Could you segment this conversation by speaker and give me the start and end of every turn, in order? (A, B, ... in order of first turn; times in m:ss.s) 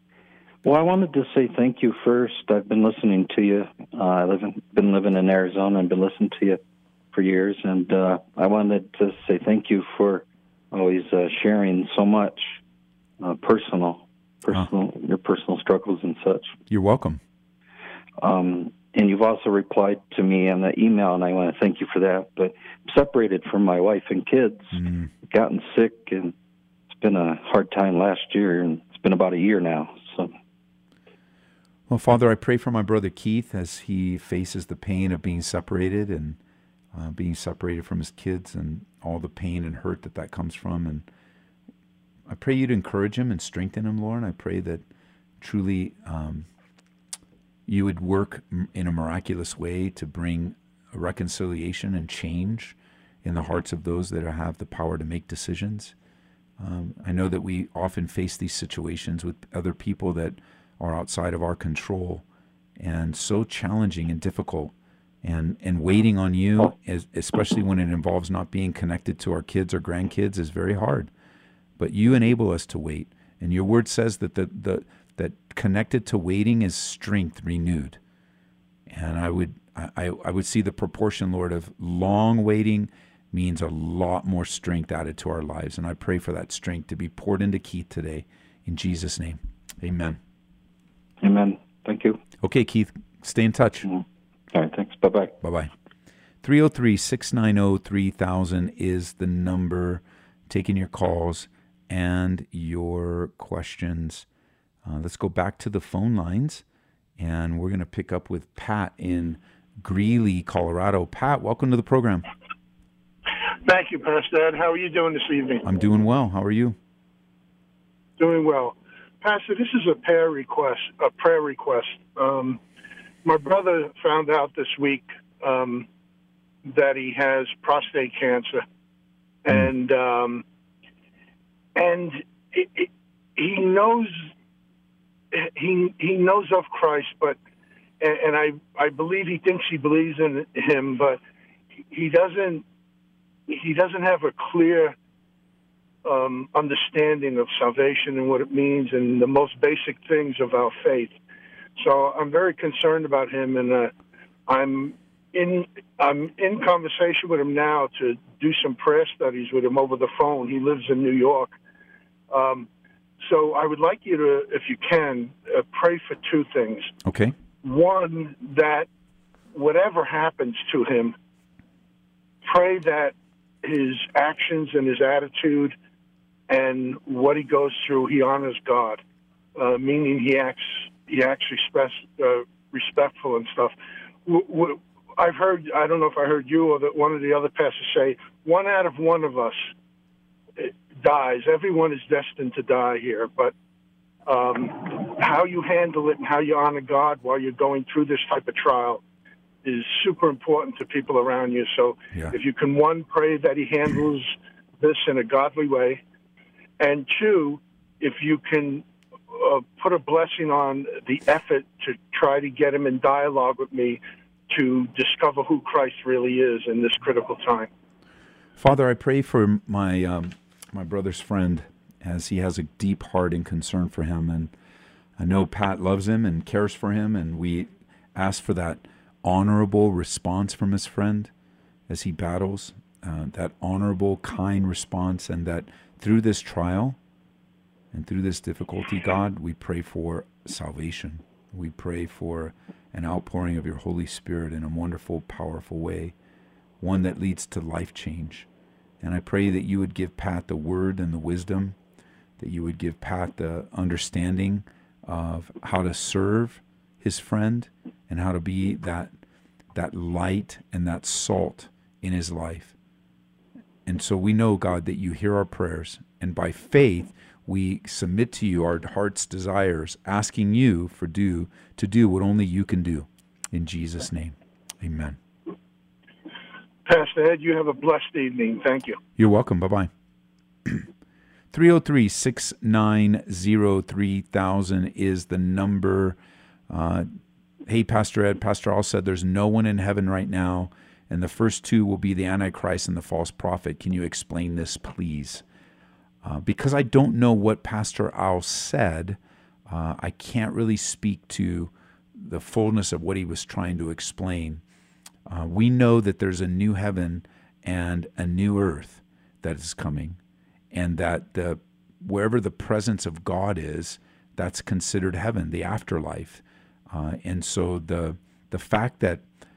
0:00.6-0:06.6 A
0:07.1-0:12.6 A
0:13.2-0:16.5 A
0:16.7-0:17.2 B
0:18.2-0:24.8 A
0:24.7-0:25.1 B
0:25.3-0:26.3 A
0:27.0-0:30.3 A
0:31.9-0:36.4 B
0:36.9-0:41.0 B
0:42.3-0:44.8 B
0:45.4-0:46.4 B
0:47.7-0:55.9 B
0:56.6-1:02.2 B
1:02.8-1:11.1 B
1:11.8-1:18.0 B
1:18.9-1:30.2 B
1:31.2-1:32.2 A
1:32.4-1:33.9 B
1:33.9-1:35.4 A
1:35.4-1:35.7 B
1:36.4-1:44.2 B
1:44.8-1:46.6 B
1:47.2-1:52.2 B
1:53.6-1:55.6 C
1:55.6-1:56.8 B
1:58.2-2:02.6 C
2:03.2-2:05.9 C
2:06.7-2:08.6 C
2:09.4-2:10.4 C
2:11.7-2:14.2 C
2:15.3-2:17.4 C
2:18.0-2:21.2 C
2:21.9-2:22.6 C
2:23.5-2:24.9 C
2:26.0-2:31.2 C
2:31.8-2:33.9 C
2:34.5-2:41.5 C
2:42.3-2:42.7 C
2:43.2-2:46.9 C
2:47.0-2:47.3 B
2:47.6-2:48.9 C
2:49.5-2:51.1 C
2:52.4-2:55.7 C
2:56.5-2:59.0 C
2:59.5-3:03.7 C
3:04.2-3:09.7 C
3:10.6-3:13.5 C
3:14.2-3:19.0 C
3:19.6-3:26.0 C
3:26.8-3:37.7 C
3:38.6-3:44.5 B
3:45.2-3:51.3 B
3:51.9-3:57.0 B
3:57.9-4:06.1 B
4:06.8-4:08.5 B
4:09.0-4:11.8 B
4:12.4-4:19.1 B
4:19.7-4:22.7 B
4:23.8-4:35.2 B
4:36.8-4:39.0 C
4:39.2-4:39.9 B
4:41.5-4:46.2 B
4:46.7-4:47.1 B
4:47.6-4:55.4 B
4:56.2-5:04.6 B
5:05.2-5:10.2 B
5:10.7-5:19.2 B